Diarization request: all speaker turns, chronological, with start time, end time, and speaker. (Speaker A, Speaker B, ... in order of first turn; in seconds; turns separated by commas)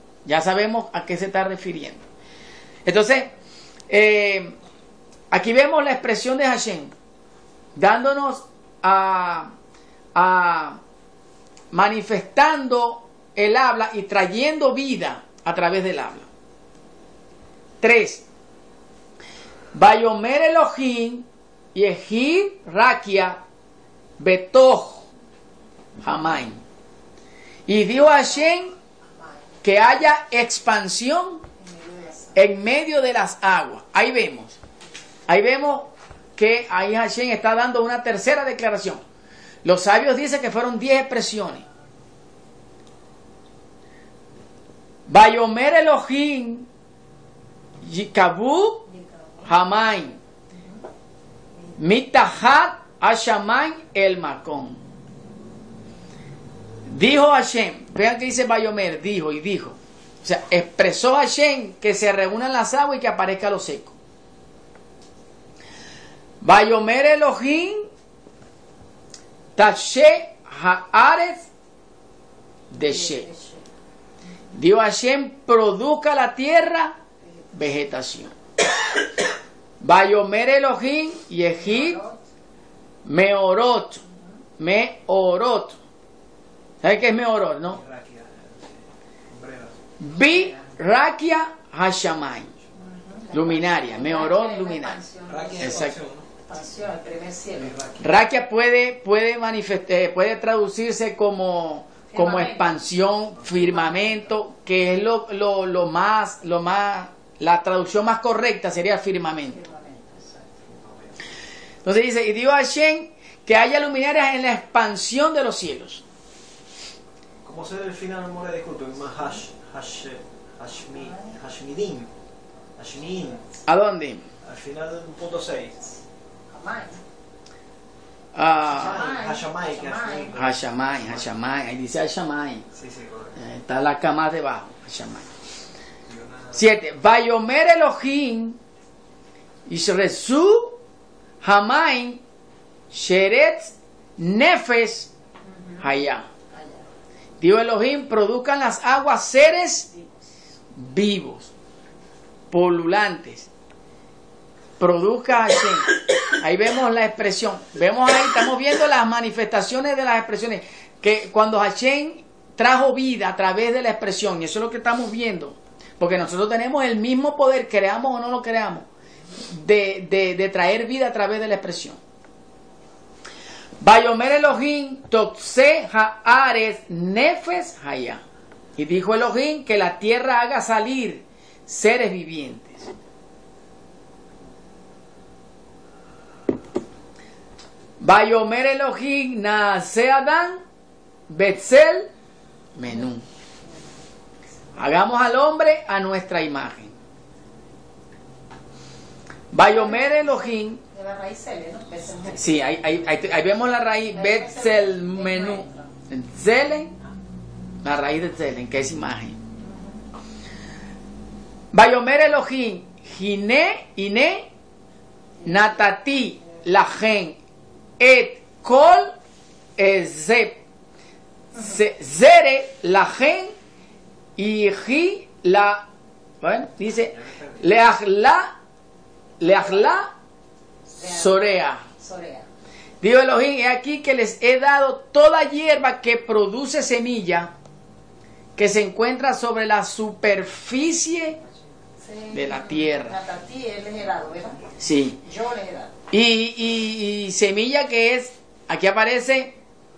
Speaker A: 0.2-2.0, Speaker A: 2.8-3.3, Speaker A: 3.9-4.5, Speaker A: 5.3-6.9, Speaker A: 7.8-9.5, Speaker A: 10.1-10.8, Speaker A: 11.7-16.3, Speaker A: 17.8-18.2, Speaker A: 19.7-23.4, Speaker A: 24.2-25.1, Speaker A: 26.0-26.6, Speaker A: 27.7-28.7, Speaker A: 29.6-31.4, Speaker B: 31.6-32.4, Speaker A: 32.3-34.6, Speaker A: 35.3-39.0, Speaker A: 39.6-41.6, Speaker A: 45.1-46.7, Speaker A: 47.8-48.9, Speaker B: 48.9-49.5, Speaker A: 49.4-50.2, Speaker B: 50.5-50.8, Speaker A: 51.8-54.8, Speaker A: 56.9-63.9, Speaker A: 66.4-67.9, Speaker A: 69.5-71.5, Speaker A: 72.7-73.3, Speaker B: 72.8-73.6, Speaker A: 74.5-77.0, Speaker A: 77.5-78.3, Speaker A: 79.8-82.0, Speaker B: 81.6-82.2, Speaker A: 83.0-84.0, Speaker A: 84.6-85.8, Speaker A: 86.8-87.8, Speaker C: 87.7-89.8, Speaker A: 90.0-92.5, Speaker B: 90.2-90.6, Speaker B: 92.8-95.9, Speaker A: 93.3-95.0, Speaker C: 95.3-96.3, Speaker A: 95.6-96.0, Speaker B: 96.5-97.8, Speaker C: 97.6-98.2, Speaker A: 98.0-109.6, Speaker B: 102.1-102.7, Speaker C: 103.4-103.8, Speaker B: 103.8-104.2, Speaker B: 109.5-110.5, Speaker C: 110.6-111.2, Speaker A: 111.8-116.0, Speaker C: 117.4-122.1, Speaker B: 121.0-121.3, Speaker C: 122.8-123.5, Speaker A: 123.7-124.2, Speaker C: 124.4-125.8, Speaker B: 126.5-127.0, Speaker A: 128.3-129.0, Speaker C: 128.7-131.3, Speaker B: 128.8-130.3, Speaker A: 130.3-132.6, Speaker C: 132.7-133.4, Speaker A: 133.3-135.3, Speaker C: 136.1-136.7, Speaker A: 136.5-138.6, Speaker A: 139.7-140.8, Speaker A: 141.4-142.2, Speaker A: 142.9-145.1, Speaker B: 145.5-145.8, Speaker A: 145.8-146.2, Speaker B: 146.5-146.8, Speaker A: 147.4-149.9, Speaker A: 150.7-151.5, Speaker A: 152.5-153.5, Speaker A: 154.8-168.9, Speaker A: 169.4-172.0, Speaker A: 173.8-178.2, Speaker A: 178.8-182.9, Speaker A: 188.0-190.6, Speaker A: 191.3-192.1, Speaker A: 192.8-193.2, Speaker A: 194.8-196.9, Speaker A: 199.5-200.8, Speaker B: 199.6-200.1, Speaker B: 200.9-202.6, Speaker A: 202.3-206.9, Speaker B: 204.1-205.9, Speaker A: 207.8-209.4, Speaker A: 211.7-214.5, Speaker B: 215.4-215.8, Speaker A: 215.4-217.4, Speaker A: 218.0-219.1, Speaker A: 219.8-220.6, Speaker A: 221.5-223.5, Speaker A: 224.4-225.9, Speaker A: 226.4-228.5, Speaker C: 227.1-227.7, Speaker A: 229.4-230.1, Speaker B: 230.9-232.5, Speaker A: 231.0-231.8, Speaker A: 233.0-237.5, Speaker A: 238.6-241.4, Speaker B: 242.0-244.6, Speaker A: 242.3-243.2, Speaker A: 244.8-245.2, Speaker B: 245.2-245.9, Speaker A: 246.1-249.6